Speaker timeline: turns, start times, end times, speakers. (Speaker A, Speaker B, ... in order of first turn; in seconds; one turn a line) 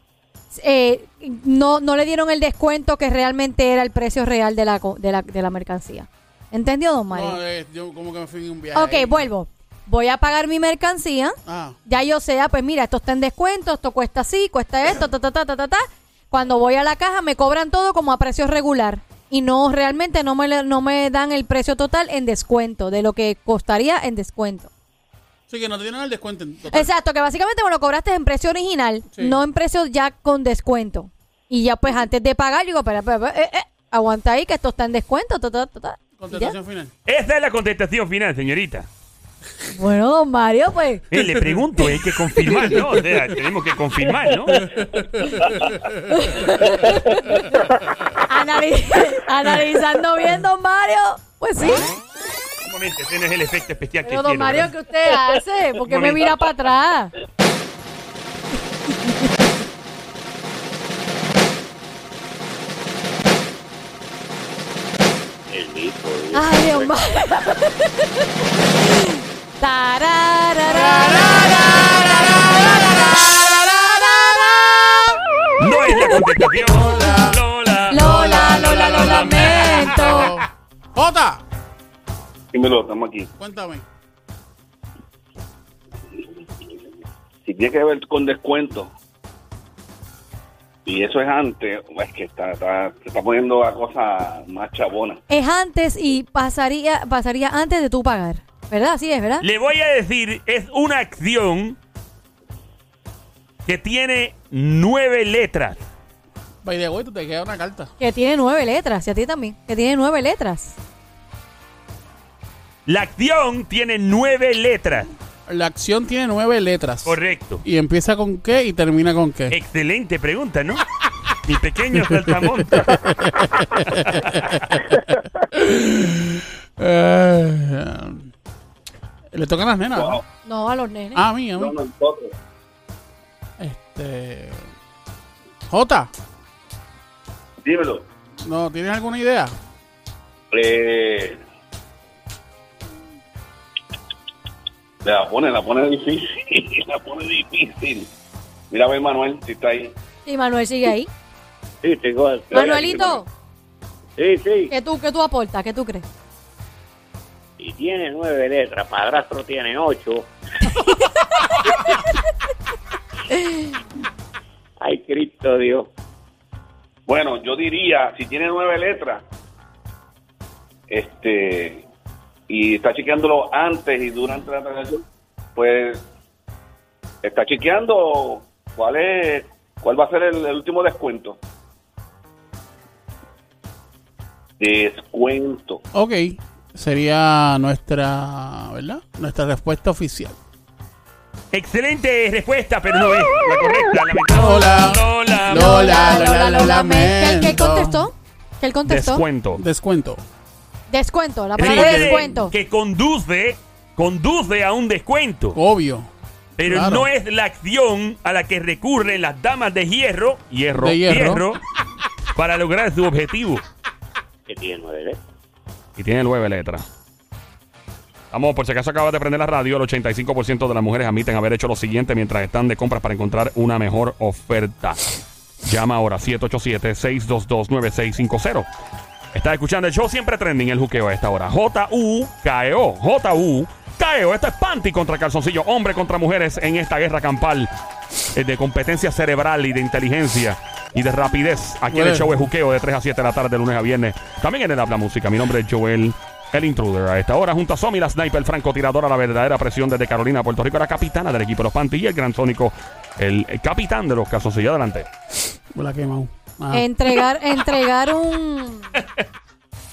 Speaker A: 0.5-7.4
Speaker B: 7.1-9.3
Speaker A: 8.7-24.7
Speaker B: 11.5-11.8
Speaker B: 25.5-26.9
Speaker A: 26.7-36.5
Speaker B: 29.1-29.4
Speaker B: 36.2-36.9
Speaker C: 37.1-38.9
Speaker A: 39.7-41.1
Speaker C: 41.1-44.7
Speaker B: 44.7-46.2
Speaker A: 46.1-47.6
Speaker A: 48.2-51.9
Speaker C: 52.6-54.7
Speaker A: 54.0-57.1
Speaker C: 55.9-56.4
Speaker A: 58.9-59.4
Speaker D: 65.5-66.9
Speaker A: 66.3-68.2
Speaker A: 68.8-75.2
Speaker B: 70.6-73.6
Speaker C: 75.6-80.3
Speaker A: 75.9-76.2
Speaker B: 76.8-77.4
Speaker A: 77.9-80.3
Speaker B: 78.0-81.4
Speaker E: 82.5-83.3
Speaker B: 83.4-83.8
Speaker E: 87.5-88.9
Speaker E: 90.8-95.2
Speaker A: 95.3-99.5
Speaker C: 99.4-101.8
Speaker C: 103.7-105.8
Speaker B: 106.6-107.9
Speaker A: 108.0-110.8
Speaker C: 112.9-115.1
Speaker B: 115.5-119.5
Speaker C: 117.0-117.6
Speaker C: 119.5-120.8
Speaker C: 121.5-123.0
Speaker B: 122.0-125.0
Speaker C: 124.1-124.4
Speaker B: 125.5-128.3
Speaker B: 129.3-130.2
Speaker E: 129.9-130.2
Speaker A: 130.5-131.2
Speaker B: 131.2-131.7
Speaker E: 131.6-132.3
Speaker B: 133.6-134.7
Speaker B: 135.7-136.1
Speaker E: 137.6-138.1
Speaker B: 138.4-139.5
Speaker E: 140.5-141.4
Speaker E: 145.0-148.1
Speaker E: 148.7-150.0
Speaker A: 150.3-151.1
Speaker D: 151.8-153.2
Speaker A: 152.5-153.3
Speaker E: 152.5-153.0
Speaker D: 154.2-154.7
Speaker A: 154.7-156.1
Speaker D: 157.6-160.3
Speaker A: 160.7-162.0
Speaker A: 163.3-163.8
Speaker D: 164.8-165.9
Speaker E: 167.1-169.2
Speaker E: 170.9-171.9
Speaker E: 172.5-175.0
Speaker E: 175.6-176.0
Speaker E: 177.2-181.4
Speaker E: 184.6-185.8
Speaker B: 185.9-190.4
Speaker C: 191.5-196.0
Speaker B: 194.3-198.1
Speaker A: 195.5-199.2
Speaker C: 198.9-199.6
Speaker B: 199.6-200.2
Speaker A: 200.9-202.5
Speaker B: 201.6-202.4
Speaker C: 201.6-205.6
Speaker B: 205.5-206.1
Speaker C: 206.6-211.6
Speaker B: 206.6-207.1
Speaker B: 210.8-211.4
Speaker C: 212.3-213.6
Speaker D: 214.5-215.2
Speaker C: 216.0-216.8
Speaker C: 218.3-225.0
Speaker C: 225.6-228.7
Speaker C: 229.3-237.7
Speaker C: 238.3-255.1
Speaker B: 241.9-242.5
Speaker B: 255.7-256.9
Speaker A: 256.7-258.9